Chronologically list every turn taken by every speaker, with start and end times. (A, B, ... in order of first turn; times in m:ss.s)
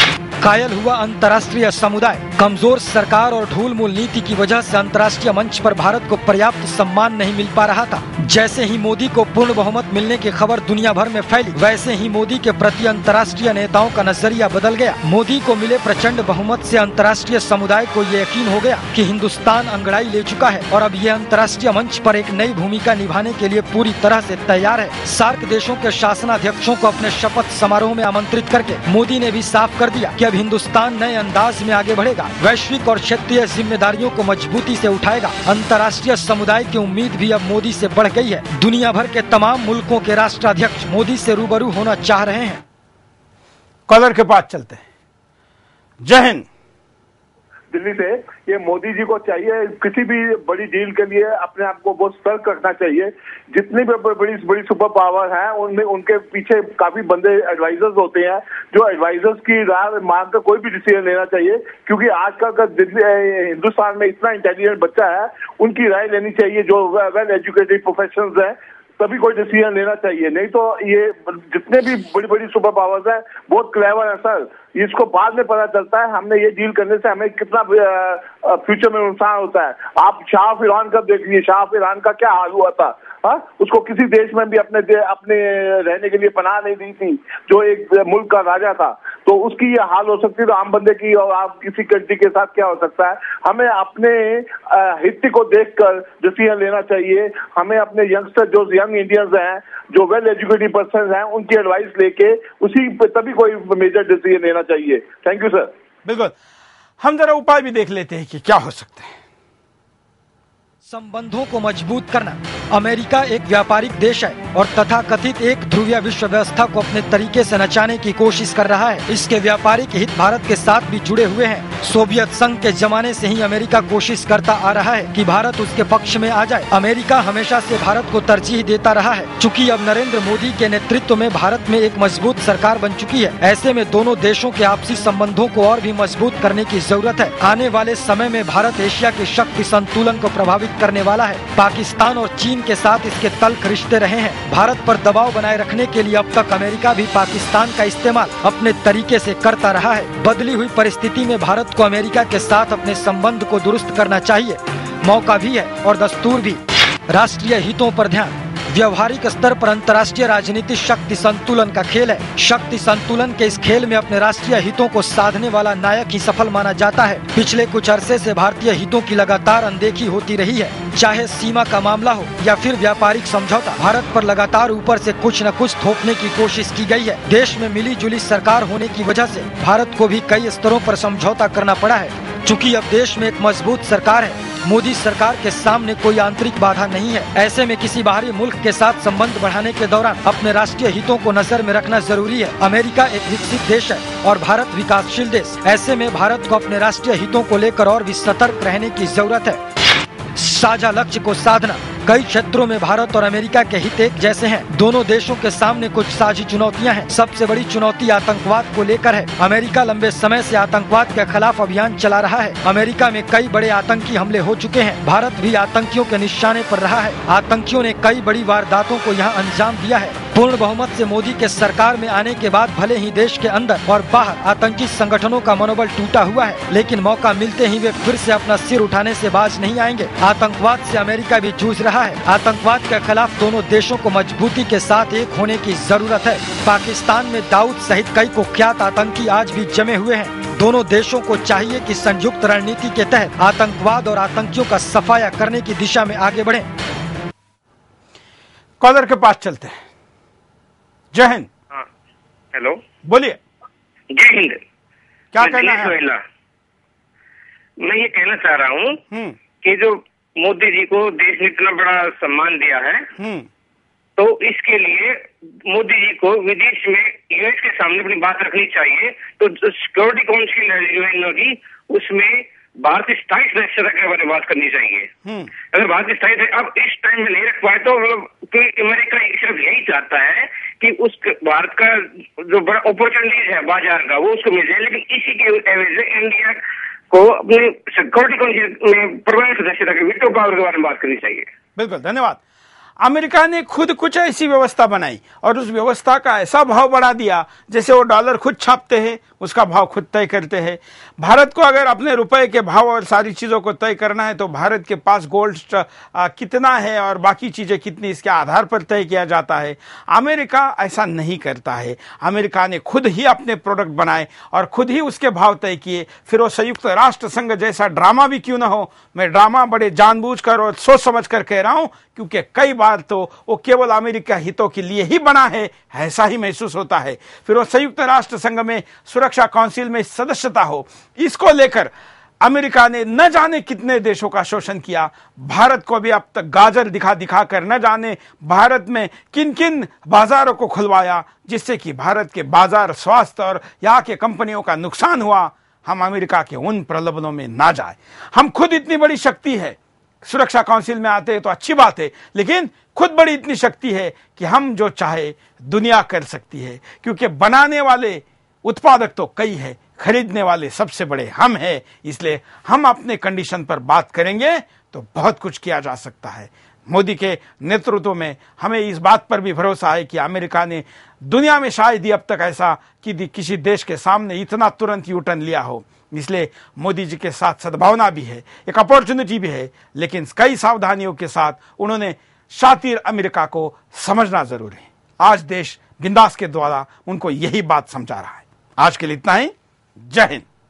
0:00.4-0:42.6 A
0:43.9-0:44.8 B
0:46.0-0:46.4 B
0:47.7-1:45.7 C
1:46.0-1:46.3 B
1:47.0-1:49.1 B
1:50.9-3:19.6 A
3:20.4-4:06.7 A
4:08.8-4:09.8 B
4:11.1-4:11.5 B
4:12.5-4:12.8 D
4:13.0-4:13.4 B
4:14.1-4:14.6 D
4:15.3-4:16.0 B
4:15.4-4:16.2 D
4:17.8-4:19.0 D
4:19.1-4:19.4 B
4:19.6-4:23.1 D
4:23.2-4:23.5 B
4:24.2-4:46.6 D
4:35.2-4:35.5 B
4:47.1-4:51.5 D
4:51.8-4:52.4 B
4:53.0-6:29.5 B
6:30.1-6:30.4 B